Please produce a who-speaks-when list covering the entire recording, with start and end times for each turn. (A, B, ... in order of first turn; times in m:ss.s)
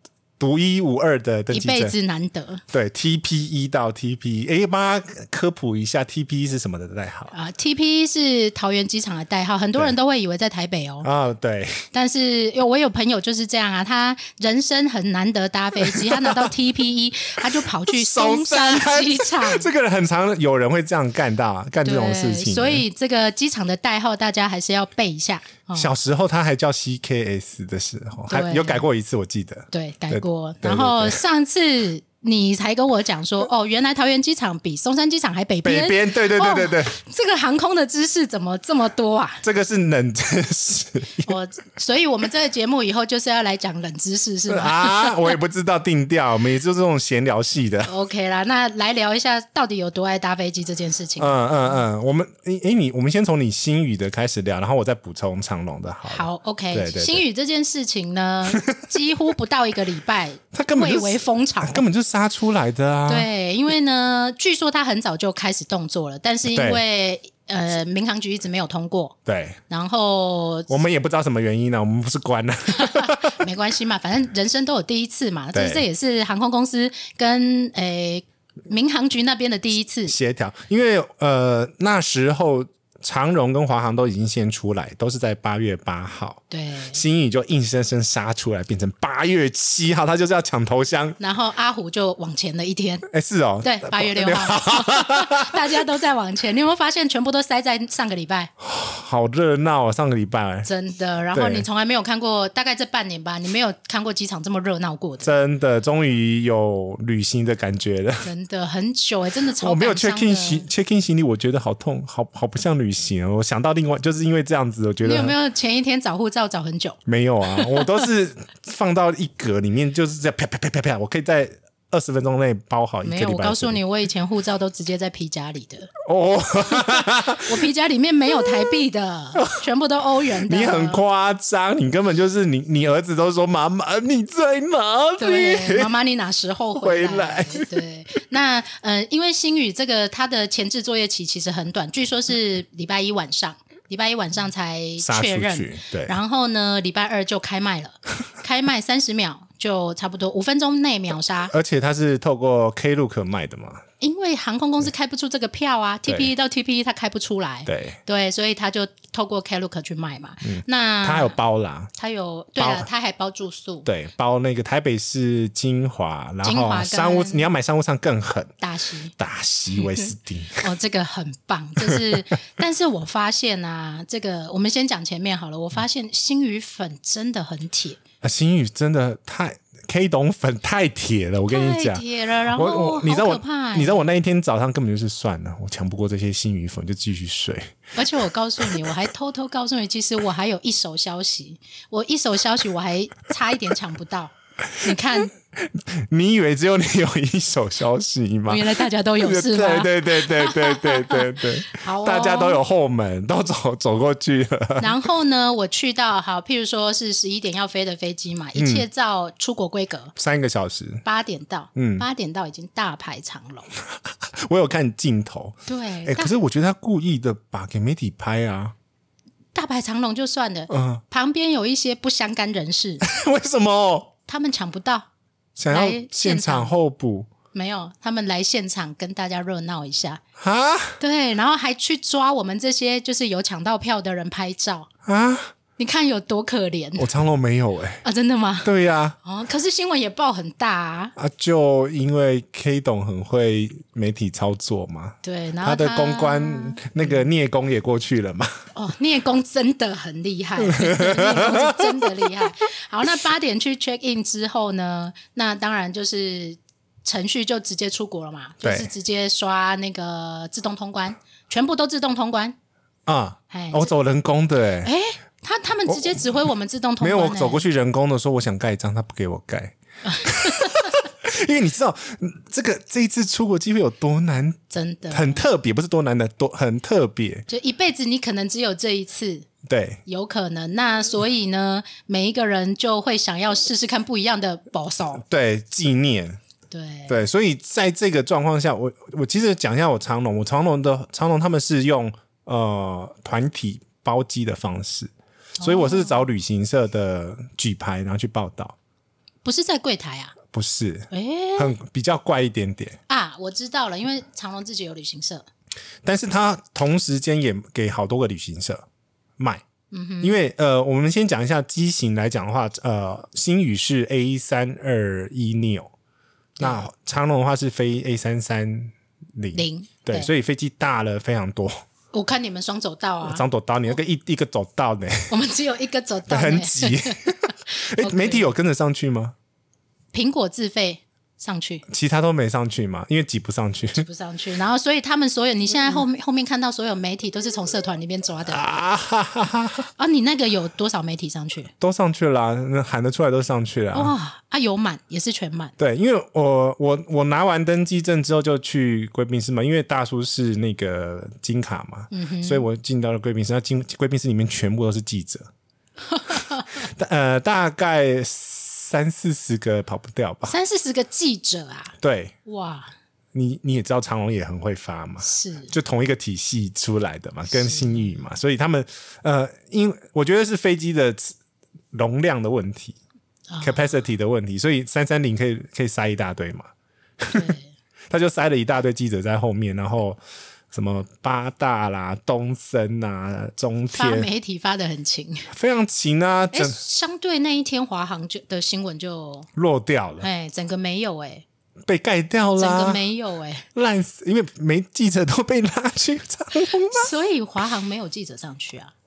0:00.4-0:01.9 A
0:01.5-0:02.6 B
0:02.7-0:07.3 A
0:07.3-0:11.1 B
0:11.0-0:11.8 A
0:11.9-0:19.7 B
0:15.8-0:16.5 A
0:17.5-0:22.8 A
0:21.8-0:25.9 B
0:25.7-0:31.2 A
0:28.3-0:28.8 B
0:29.7-0:39.4 B
0:35.6-0:36.9 A
0:39.4-0:41.3 A
0:41.2-0:45.4 B
0:44.5-0:47.9 A
0:47.8-0:51.8 B
0:51.2-0:57.2 A
0:56.1-1:01.8 B
0:58.5-0:58.8 A
1:00.5-1:03.3 A
1:03.0-1:09.2 B
1:06.5-1:06.8 A
1:09.2-1:09.6 A
1:09.7-1:10.7 B
1:10.7-1:13.4 A
1:12.7-1:20.1 B
1:15.5-1:15.8 A
1:20.1-1:31.2 A
1:26.5-1:27.0 B
1:31.2-1:33.0 B
1:33.1-1:35.8 A
1:33.6-1:38.5 B
1:38.6-1:40.7 A
1:40.6-1:45.3 B
1:41.3-1:41.7 A
1:45.2-1:48.3 A
1:48.2-1:50.7 B
1:49.6-1:55.3 A
1:55.0-1:57.0 B
1:57.0-2:03.8 A
1:57.5-1:58.0 B
2:03.0-2:05.9 B
2:06.0-2:07.6 A
2:07.4-2:11.0 B
2:09.4-2:09.6 A
2:10.4-2:15.9 A
2:15.2-2:31.5 B
2:16.8-2:17.8 A
2:25.0-2:26.2 A
2:31.5-2:33.8 A
2:34.0-2:41.4 B
2:37.6-2:38.0 A
2:40.4-2:41.9 A
2:42.0-2:43.9 B
2:42.6-2:42.9 A
2:43.8-2:48.5 A
2:46.4-2:47.5 B
2:48.6-2:49.1 B
2:49.2-2:50.6 A
2:49.7-2:58.0 B
2:51.8-2:52.2 A
2:58.2-3:07.9 A
3:01.5-3:04.0 B
3:07.9-3:15.3 B
3:08.6-3:08.9 A
3:14.7-3:25.0 A
3:18.5-3:22.6 B
3:24.8-3:30.1 B
3:28.6-3:28.8 A
3:30.2-3:31.0 A
3:31.0-3:33.7 B
3:31.8-3:32.0 A
3:34.2-3:38.7 A
3:35.7-3:36.3 B
3:39.5-3:43.0 B
3:40.7-3:41.0 A
3:43.0-3:44.1 A
3:44.3-3:45.1 B
3:45.6-3:47.3 A
3:45.7-3:46.7 B
3:47.5-3:50.2 B
3:50.4-3:51.0 A
3:51.0-3:54.9 B
3:55.0-3:55.5 A
3:55.8-3:57.1 B
3:57.0-3:58.0 A
3:58.0-4:01.1 B
3:58.6-3:59.2 A
4:01.2-4:08.6 A
4:05.2-4:07.3 B
4:08.7-4:22.6 B
4:10.6-4:12.5 A
4:18.6-4:18.9 A
4:23.0-4:24.9 A
4:23.5-4:23.9 B
4:24.8-4:27.6 B
4:25.9-4:26.3 A
4:27.0-4:34.6 A
4:30.0-4:31.0 B
4:34.7-4:35.4 B
4:35.1-4:37.4 A
4:37.5-4:39.5 B
4:39.6-4:40.0 A
4:40.0-4:45.2 B
4:45.2-4:46.4 A
4:46.7-4:47.2 B
4:47.1-4:58.7 A
4:55.6-4:56.3 B
4:59.4-5:00.4 B
5:00.5-5:03.0 A
5:01.1-5:01.7 B
5:03.1-5:05.4 B
5:06.0-5:08.8 A
5:09.4-5:09.6 A
5:09.9-5:10.4 B
5:10.2-5:15.9 A
5:16.6-5:21.8 A
5:19.5-5:20.3 B
5:22.1-5:23.4 B
5:23.2-5:25.3 A
5:25.3-5:28.5 B
5:26.3-5:27.4 A
5:27.9-5:29.3 A
5:30.1-5:31.8 B
5:31.9-5:34.0 A
5:33.9-5:38.6 B
5:38.5-5:39.9 A
5:40.0-5:41.7 B
5:41.8-5:44.1 A
5:43.9-5:45.7 B
5:45.8-5:55.5 A
5:52.1-5:52.7 B
5:56.0-5:56.8 B
5:56.8-6:00.5 A
6:00.4-6:01.9 B
6:02.0-6:02.3 A
6:02.4-6:02.9 B
6:03.3-6:11.4 A
6:05.2-6:05.7 B
6:07.5-6:08.2 B
6:11.9-6:13.0 A
6:13.5-6:13.9 B
6:13.6-6:16.7 A
6:17.2-6:17.5 A
6:17.3-6:17.7 B
6:18.1-6:20.2 A
6:20.7-6:24.3 A
6:23.9-6:25.5 B
6:25.5-6:26.8 A
6:26.5-6:29.5 B
6:29.6-6:30.3 A
6:30.2-6:31.4 B
6:31.9-6:33.0 A
6:32.6-6:33.6 B
6:33.7-6:37.1 A
6:36.9-6:38.9 B